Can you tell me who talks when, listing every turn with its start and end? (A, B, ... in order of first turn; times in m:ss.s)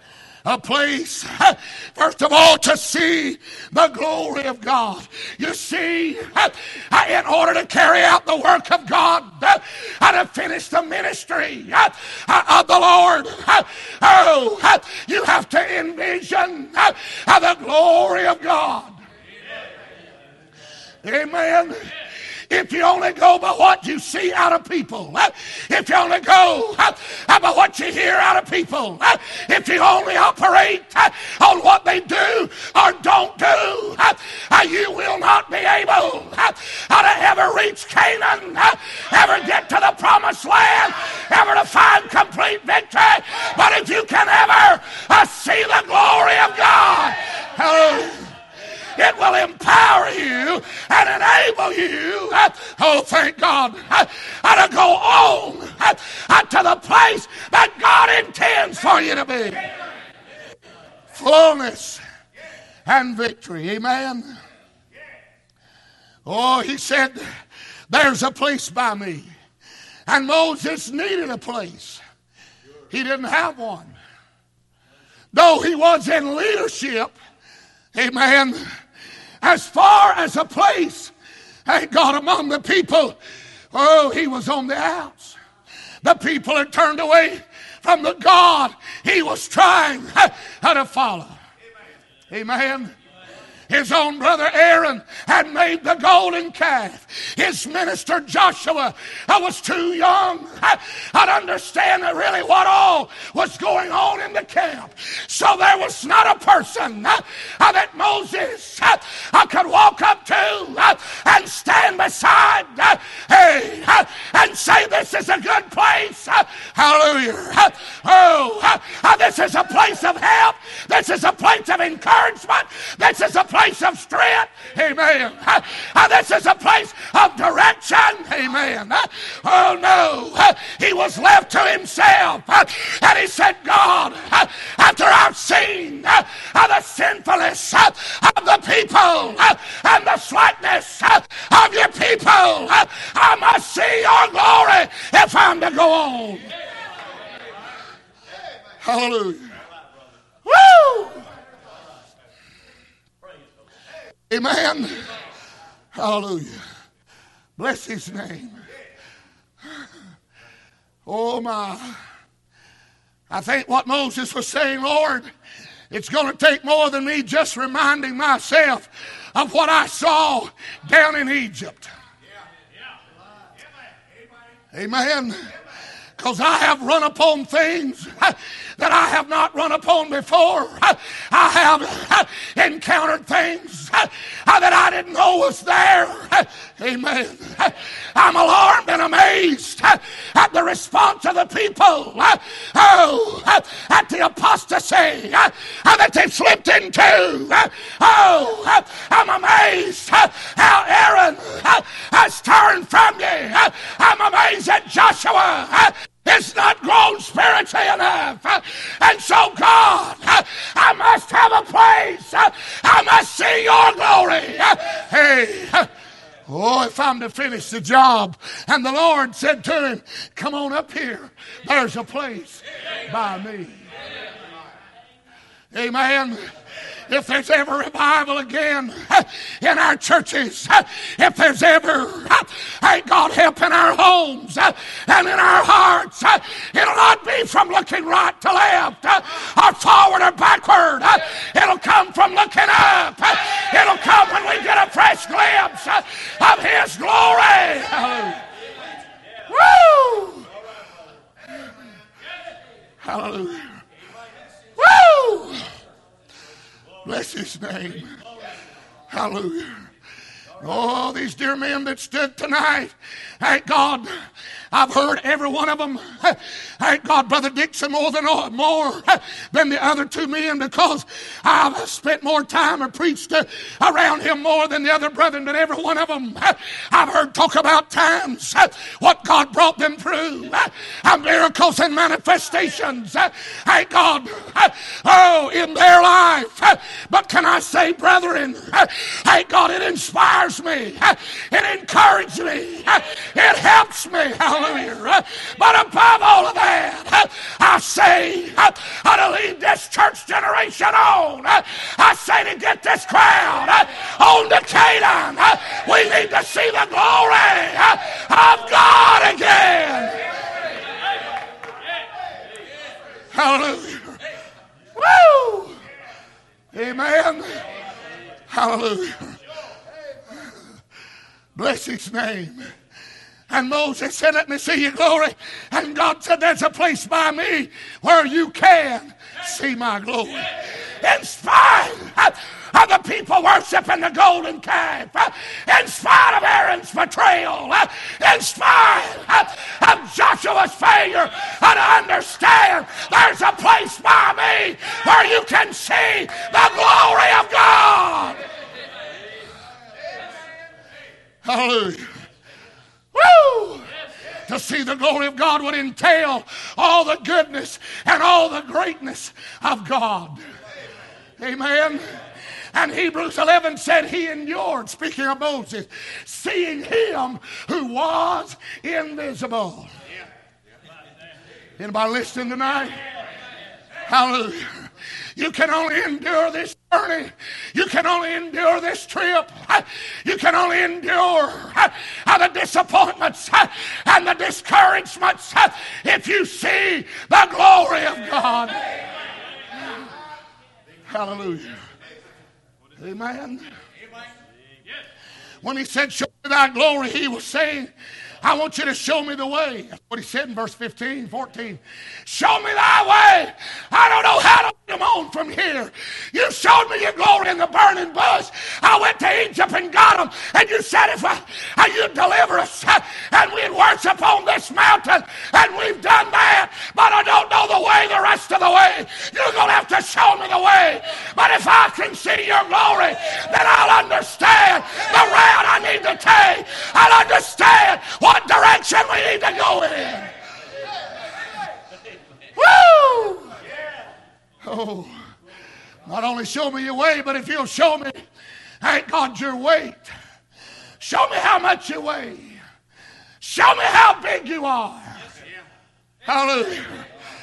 0:00.4-0:19.0 A
0:21.0-0:21.9 A
0:22.5-0:48.3 A
0:49.0-0:59.6 A
1:01.1-1:02.0 A
1:02.9-1:04.3 A
1:06.3-1:07.2 A
1:07.9-1:09.3 A
1:10.1-1:12.0 A
1:12.9-1:14.0 A
1:15.3-1:17.2 A
1:18.0-1:18.6 A
1:19.4-1:21.1 A
1:21.7-1:23.2 A
1:23.7-1:25.4 A
1:26.0-1:31.4 A
1:32.3-1:32.9 A
1:33.7-2:26.5 A
2:28.8-2:29.6 A
2:30.4-2:31.3 A
2:34.3-2:35.1 A
2:35.9-2:36.6 A
2:37.6-2:38.6 A
2:41.1-2:42.0 A
2:43.3-2:45.3 A
2:45.9-2:51.9 A
2:54.7-2:55.5 A
2:56.2-3:35.9 A
3:36.5-3:43.8 A
3:45.7-3:46.4 A
3:47.1-4:08.4 A
4:09.5-4:10.5 A
4:13.0-4:13.8 A
4:14.8-4:15.7 A
4:17.0-4:18.2 A
4:19.1-4:19.8 A
4:20.6-4:24.1 A
4:24.7-5:10.2 A
5:13.3-5:14.2 A
5:15.0-5:15.8 A
5:16.7-5:17.6 A
5:18.5-5:19.4 A
5:21.6-5:22.7 A
5:23.5-5:48.4 A
5:51.4-5:52.1 A
5:53.1-5:53.9 A
5:54.5-6:00.4 A
6:01.4-6:02.1 A
6:02.7-6:09.9 A
6:11.8-6:13.0 A
6:14.1-6:14.8 A
6:15.4-6:28.8 A
6:31.1-6:31.8 A
6:33.0-6:33.7 A
6:35.6-7:10.3 A
7:12.6-7:13.6 A
7:14.6-7:15.1 A
7:16.1-7:18.2 A
7:18.8-7:20.1 A
7:21.0-7:22.6 A
7:23.4-7:25.2 A
7:26.2-7:27.1 A